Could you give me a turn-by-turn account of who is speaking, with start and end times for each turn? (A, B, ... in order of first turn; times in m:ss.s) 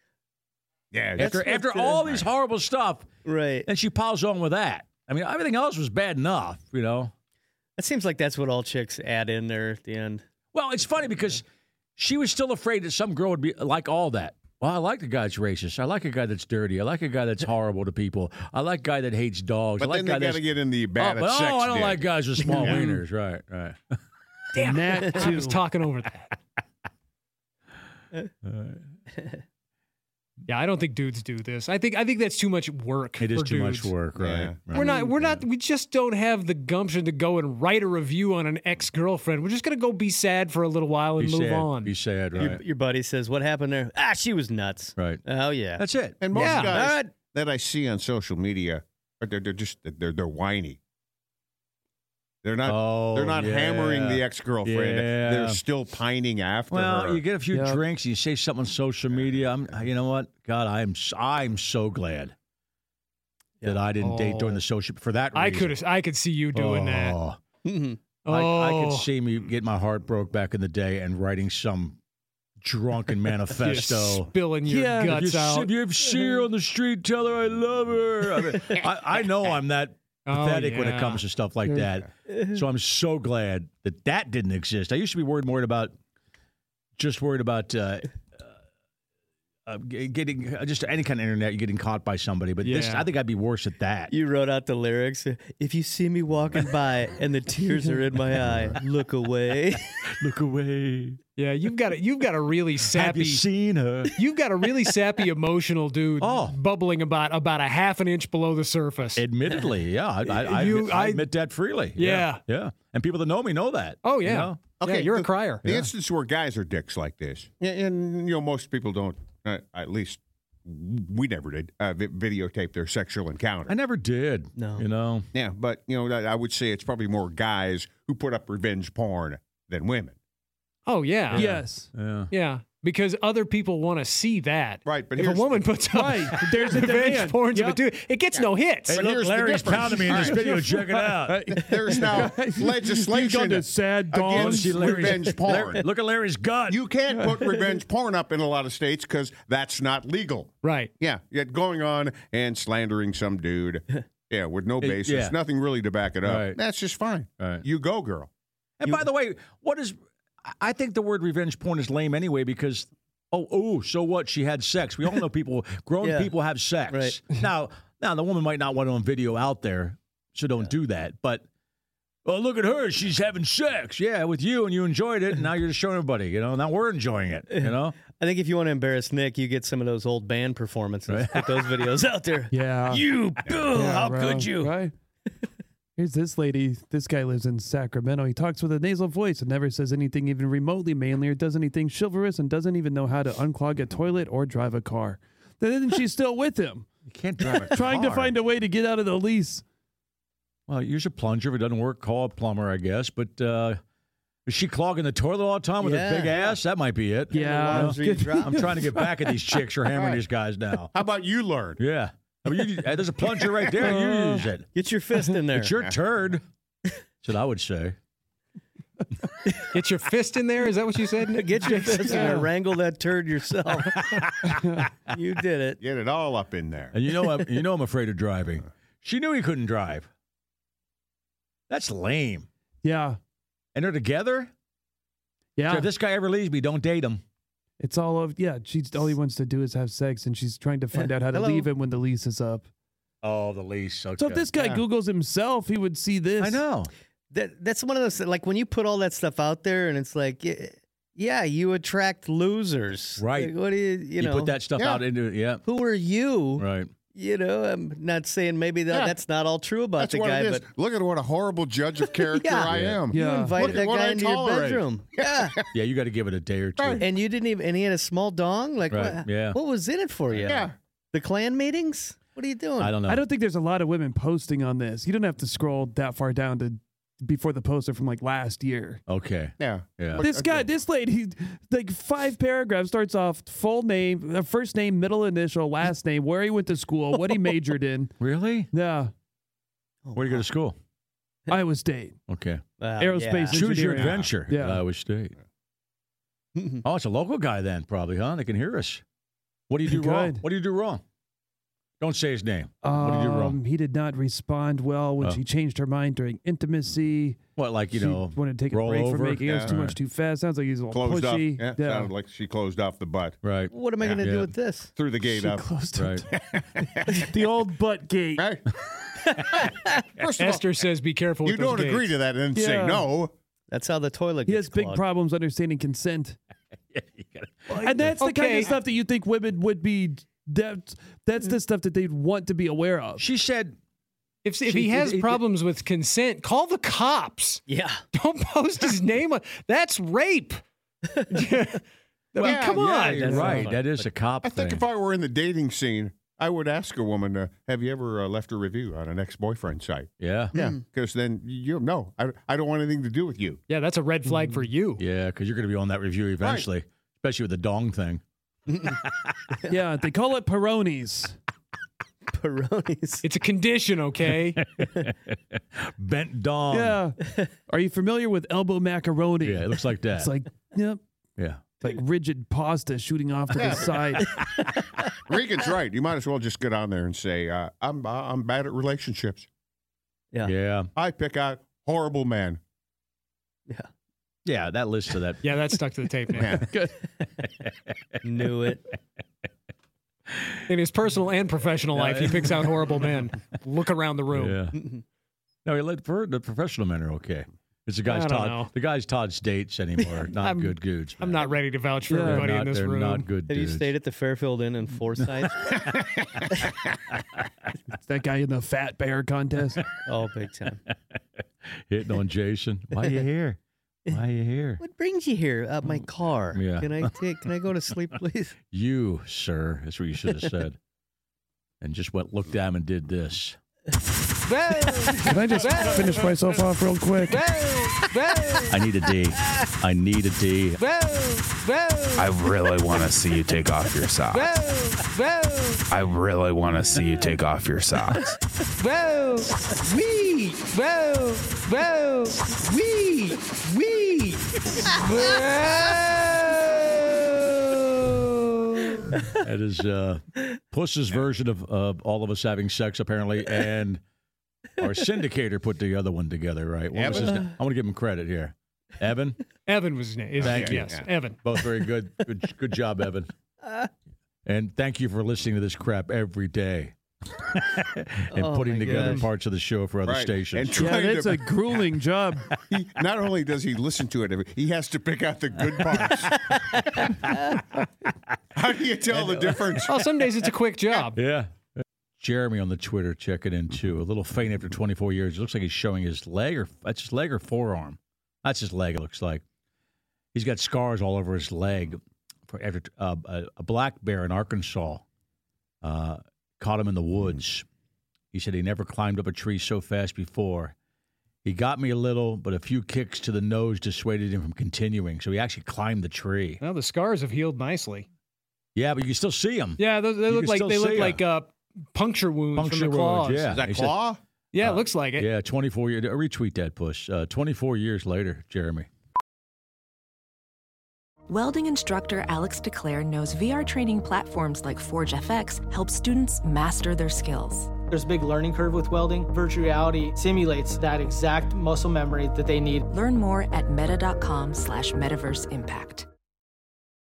0:00.9-0:02.2 A
0:01.2-0:03.1 B
0:01.3-0:01.7 C
0:03.2-0:03.7 C
0:03.6-0:07.1 B
0:07.8-0:10.2 C
0:10.5-0:11.4 B
0:12.0-0:24.0 B
0:19.8-0:22.8 A
0:24.5-0:26.3 D
0:24.6-0:25.6 E
0:28.4-0:28.8 B
0:30.5-0:33.9 D
0:33.2-0:35.4 B
0:34.2-0:34.6 A
0:34.7-0:42.0 D
0:34.8-0:35.0 C
0:41.2-0:42.6 B
0:42.4-0:45.8 C
0:45.0-0:45.2 B
0:45.8-0:46.2 B
0:46.2-0:50.8 A
0:46.3-0:46.7 D
0:46.3-0:47.2 C
0:52.4-0:57.2 A
0:52.6-0:55.6 B
0:56.7-1:02.4 B
0:57.5-0:57.8 E
1:03.6-1:05.8 B
1:04.0-1:04.6 D
1:05.4-1:07.2 D
1:06.5-1:07.4 B
1:07.6-1:08.0 C
1:08.2-1:09.1 D
1:08.3-1:12.0 B
1:12.6-1:14.3 B
1:13.6-1:15.7 D
1:14.7-1:15.1 E
1:15.1-1:26.0 B
1:20.3-1:21.2 D
1:22.3-1:22.6 C
1:27.0-1:28.5 B
1:29.7-1:34.1 B
1:32.6-1:33.1 D
1:34.1-1:40.0 C
1:40.2-1:41.2 B
1:41.4-1:43.4 D
1:42.9-1:44.1 B
1:44.1-1:49.2 D
1:46.2-1:46.6 B
1:49.2-1:54.6 B
1:50.3-1:51.3 D
1:52.0-1:52.4 D
1:54.0-1:55.6 D
1:54.8-2:03.7 A
1:55.6-1:55.9 B
2:03.7-2:05.3 B
2:04.6-2:04.8 C
2:05.3-2:10.2 A
2:10.9-2:11.6 D
2:11.3-2:12.3 B
2:11.3-2:11.9 E
2:12.3-2:19.0 D
2:14.9-2:15.8 A
2:15.9-2:17.8 E
2:18.9-2:21.4 B
2:18.9-2:20.4 A
2:19.8-2:25.3 E
2:21.5-2:25.9 A
2:24.3-2:26.8 B
2:26.7-2:38.3 A
2:27.1-2:27.5 E
2:30.6-2:30.9 D
2:34.8-2:35.4 B
2:36.2-2:36.6 B
2:37.4-2:37.6 B
2:38.8-2:51.4 B
2:46.0-2:46.3 C
2:46.9-2:47.2 C
2:52.2-2:58.0 B
2:57.5-3:04.8 C
3:01.1-3:01.6 B
3:02.5-3:04.9 E
3:06.0-3:16.9 E
3:17.1-3:18.3 B
3:17.7-3:19.6 E
3:20.7-3:23.8 B
3:24.5-3:30.9 B
3:25.8-3:26.5 C
3:27.3-3:28.7 C
3:27.3-3:28.9 E
3:29.9-3:30.2 A
3:30.9-3:31.8 A
3:31.8-3:34.7 B
3:33.8-3:34.5 E
3:34.7-3:35.8 C
3:35.5-3:36.4 B
3:37.2-3:38.0 B
3:39.7-3:42.4 D
3:41.3-3:44.2 C
3:42.2-3:42.5 E
3:43.7-3:44.8 B
3:45.1-3:45.8 C
3:45.8-3:47.0 A
3:46.9-3:50.1 B
3:51.7-3:52.5 B
3:52.8-3:53.2 E
3:53.8-3:54.5 B
3:55.6-3:55.9 E
3:55.7-3:57.2 B
3:57.8-4:02.7 E
4:01.0-4:01.7 C
4:03.2-4:04.5 B
4:04.2-4:06.6 E
4:06.4-4:06.9 B
4:07.3-4:14.6 C
4:13.2-4:13.6 B
4:14.2-4:15.6 B
4:14.8-4:15.0 A
4:15.6-4:20.6 C
4:16.6-4:16.9 B
4:18.9-4:19.2 A
4:20.0-4:25.6 A
4:22.1-4:25.6 C
4:22.7-4:23.1 B
4:23.1-4:23.7 E
4:25.7-4:27.1 B
4:26.8-4:27.1 A
4:27.0-4:33.0 C
4:28.9-4:29.6 B
4:30.3-4:30.7 B
4:30.5-4:30.8 A
4:32.8-4:33.2 B
4:33.0-4:39.0 E
4:39.1-4:40.2 B
4:39.6-4:40.7 A
4:40.2-4:48.1 E
4:48.2-4:48.7 B
4:48.7-4:49.1 E
4:50.0-4:50.4 C
4:50.2-4:50.8 B
4:51.5-4:52.2 E
4:52.3-4:52.6 B
4:52.8-4:54.1 C
4:53.0-4:54.8 E
4:53.5-4:55.4 B
4:56.6-4:56.8 C
4:56.8-4:59.0 B
4:59.7-5:01.0 B
4:59.9-5:00.4 E
5:02.0-5:03.6 B
5:02.8-5:12.1 E
5:07.6-5:10.0 B
5:09.5-5:09.7 A
5:10.9-5:13.4 A
5:13.4-5:14.5 B
5:13.7-5:14.9 C
5:15.0-5:15.7 A
5:15.2-5:16.3 E
5:16.0-5:16.3 B
5:16.3-5:17.2 A
5:17.1-5:18.5 E
5:18.4-5:18.7 A
5:19.3-5:20.0 C
5:19.5-5:20.6 A
5:20.4-5:22.1 D
5:21.4-5:23.3 A
5:22.5-5:23.1 E
5:23.7-5:25.0 C
5:24.5-5:26.4 E
5:26.9-5:28.0 B
5:27.7-5:33.2 E
5:28.2-5:28.7 D
5:33.2-5:33.8 B
5:34.4-5:40.6 D
5:34.7-5:35.4 B
5:37.7-5:38.0 C
5:41.3-5:41.8 D
5:42.3-5:43.7 D
5:42.4-5:44.8 B
5:42.4-5:42.9 A
5:43.3-5:43.7 E
5:43.7-5:44.1 C
5:44.4-5:53.6 A
5:50.2-5:50.5 B
5:50.5-5:50.8 C
5:53.7-5:55.0 D
5:55.0-5:58.2 B
5:56.4-5:56.7 A
5:58.7-5:59.0 C
5:58.9-5:59.3 B
5:59.7-6:01.4 E
6:02.3-6:03.2 C
6:03.2-6:04.6 D
6:04.6-6:07.0 B
6:06.7-6:11.0 E
6:07.2-6:07.5 C
6:09.4-6:10.3 B
6:11.4-6:11.6 B
6:11.8-6:14.3 E
6:13.6-6:14.0 A
6:15.3-6:19.5 A
6:20.4-6:20.9 B
6:21.0-6:22.6 A
6:24.4-6:25.4 B
6:25.4-6:26.6 D
6:26.4-6:26.7 A
6:26.5-6:26.9 E
6:27.6-6:27.9 B
6:28.2-6:28.8 C
6:30.7-6:34.6 D
6:32.0-6:32.7 B
6:34.3-6:34.8 B
6:34.8-6:35.0 C
6:35.6-6:41.4 B
6:38.1-6:38.7 D
6:40.4-6:43.3 D
6:42.1-6:42.5 E
6:42.2-6:43.9 B
6:43.5-6:45.7 C
6:48.0-6:49.9 E
6:50.1-6:50.8 C
6:51.7-6:54.8 B
6:54.8-6:58.6 C
6:56.5-6:57.2 B
6:58.7-7:00.8 B
7:01.8-7:03.6 B
7:04.5-7:06.3 D
7:05.2-7:07.4 E
7:07.3-7:08.8 D
7:08.7-7:10.8 B
7:10.8-7:12.3 D
7:12.2-7:14.5 F
7:14.3-7:15.8 D
7:15.9-7:18.4 F
7:18.8-7:27.2 D
7:27.8-7:29.0 D
7:29.4-7:34.0 B
7:34.8-7:39.4 B
7:36.9-7:37.5 A
7:37.1-7:37.5 C
7:39.7-7:41.4 D
7:40.4-7:41.1 A
7:40.4-7:43.3 B
7:43.6-7:43.9 C
7:44.4-7:51.0 B
7:48.3-7:49.2 C
7:50.0-7:51.6 A
7:50.7-7:52.5 E
7:52.7-7:57.1 A
7:55.9-7:57.6 B
7:58.6-8:00.0 A
7:59.1-7:59.8 B
7:59.9-8:01.2 D
8:01.1-8:09.4 B
8:10.3-8:15.0 B
8:15.8-8:17.7 B
8:18.3-8:20.7 B
8:21.4-8:26.6 B
8:26.6-8:28.1 D
8:28.8-8:31.2 B
8:29.8-8:33.5 D
8:32.6-8:34.0 B
8:33.5-8:34.2 A
8:34.5-8:35.3 D
8:34.6-8:38.9 B
8:41.3-8:47.7 G
8:47.9-8:52.8 H
8:52.9-8:56.1 G